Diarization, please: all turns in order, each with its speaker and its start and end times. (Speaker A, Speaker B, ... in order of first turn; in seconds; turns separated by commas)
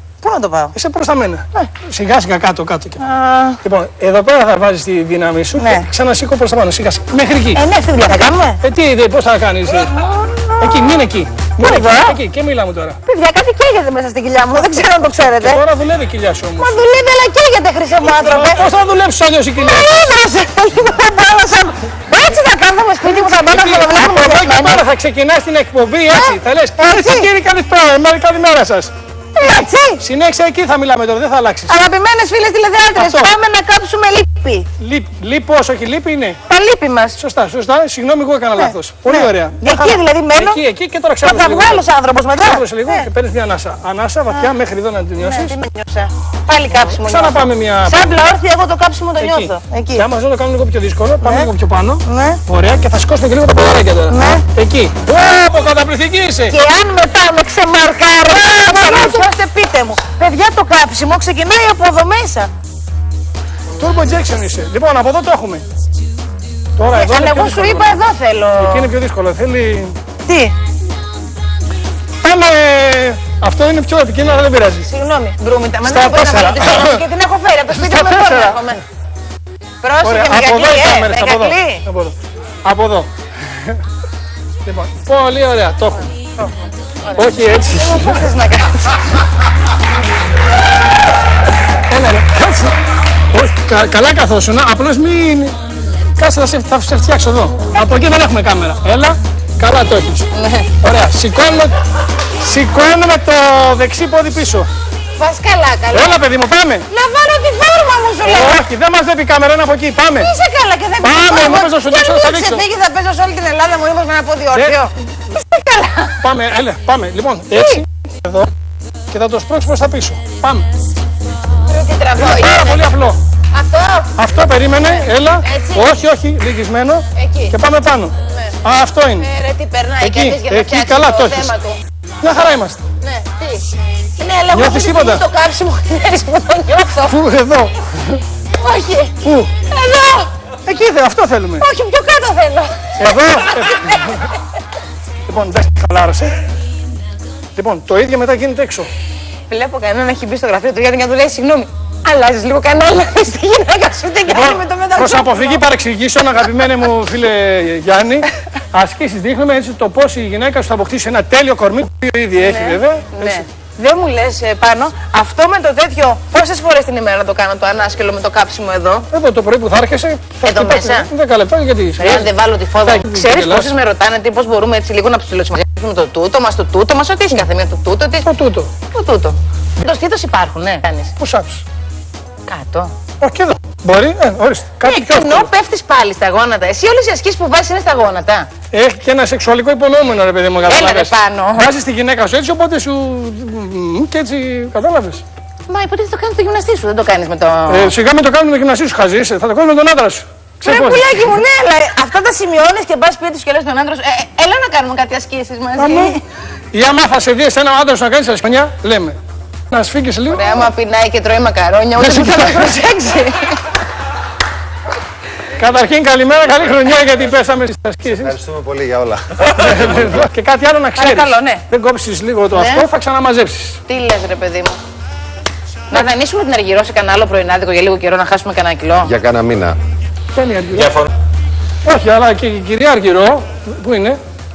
Speaker A: 0.2-0.7, Speaker B: 0.7-3.0, Speaker A: 3.0-3.6, Speaker B: 3.6-7.6, Speaker A: 5.6-5.9, Speaker A: 7.5-8.6, Speaker B: 8.6-9.9, Speaker A: 9.7-11.0, Speaker B: 10.6-13.0, Speaker A: 11.6-12.2, Speaker A: 13.1-15.6, Speaker B: 15.3-16.7, Speaker A: 16.6-18.7, Speaker B: 18.0-19.9, Speaker A: 19.6-24.8, Speaker B: 23.0-28.9, Speaker A: 26.1-27.3, Speaker A: 29.3-30.0, Speaker B: 30.0-31.8, Speaker A: 31.7-34.7, Speaker B: 33.0-33.3, Speaker B: 34.8-36.4, Speaker A: 36.5-37.2, Speaker B: 37.2-41.9, Speaker A: 38.5-40.6, Speaker A: 41.2-43.1, Speaker B: 42.4-45.5, Speaker A: 45.2-50.0, Speaker B: 46.7-48.0, Speaker B: 49.2-56.6, Speaker A: 51.2-51.5, Speaker A: 52.0-52.4, Speaker A: 54.1-54.5, Speaker A: 56.5-62.5, Speaker B: 58.3-59.2, Speaker B: 63.8-65.6, Speaker B: 66.8-67.9, Speaker A: 66.9-68.9, Speaker B: 68.5-70.0, Speaker A: 70.2-70.5, Speaker B: 72.2-74.9, Speaker A: 74.8-78.8, Speaker B: 75.8-77.0, Speaker B: 77.7-78.6, Speaker A: 79.8-81.8, Speaker B: 80.0-83.8, Speaker B: 84.7-86.1, Speaker A: 86.4-89.0, Speaker B: 87.1-88.2, Speaker B: 91.9-92.8, Speaker B: 93.3-95.6, Speaker B: 96.2-100.3, Speaker A: 100.3-100.7, Speaker B: 100.8-101.8, Speaker B: 102.4-104.7, Speaker A: 105.2-106.2, Speaker B: 105.9-106.8, Speaker A: 106.9-108.6, Speaker B: 108.2-110.3, Speaker A: 110.1-116.3, Speaker B: 111.0-112.6, Speaker B: 114.5-114.8, Speaker B: 116.2-118.5, Speaker A: 117.5-117.8, Speaker B: 119.1-120.7, Speaker A: 121.6-124.2, Speaker B: 122.2-123.2, Speaker B: 124.2-129.3, Speaker A: 124.8-125.9, Speaker A: 127.1-127.6, Speaker A: 128.3-128.6, Speaker A: 129.2-131.8, Speaker B: 130.0-131.5, Speaker B: 132.2-132.8, Speaker A: 133.0-133.6, Speaker A: 134.2-137.2, Speaker B: 134.5-135.2, Speaker B: 137.1-138.2, Speaker A: 138.5-140.3, Speaker B: 139.2-139.5, Speaker B: 140.6-141.6, Speaker A: 141.6-144.3, Speaker B: 143.0-144.3, Speaker B: 145.3-146.4, Speaker B: 147.6-148.9, Speaker A: 149.5-155.6, Speaker B: 154.3-163.4, Speaker A: 162.4-169.1, Speaker B: 169.1-172.3, Speaker A: 170.4-171.1, Speaker A: 172.0-178.3, Speaker B: 172.8-173.7, Speaker B: 178.2-178.7, Speaker A: 178.9-181.1, Speaker B: 181.2-181.6, Speaker A: 182.5-182.9, Speaker B: 183.2-185.5, Speaker A: 184.8-188.5, Speaker B: 188.7-195.2, Speaker A: 190.7-191.7, Speaker A: 195.7-197.9, Speaker B: 197.7-201.2, Speaker A: 200.6-206.2, Speaker B: 205.8-206.1, Speaker B: 206.7-209.2, Speaker B: 209.7-210.6, Speaker A: 210.3-213.6, Speaker B: 212.0-212.8, Speaker B: 215.6-218.4, Speaker C: 218.1-220.2, Speaker B: 219.4-223.8, Speaker A: 220.9-221.6, Speaker A: 222.5-222.9, Speaker A: 223.9-224.8, Speaker A: 225.9-229.1, Speaker C: 229.0-229.8, Speaker B: 230.3-231.1, Speaker B: 231.8-234.2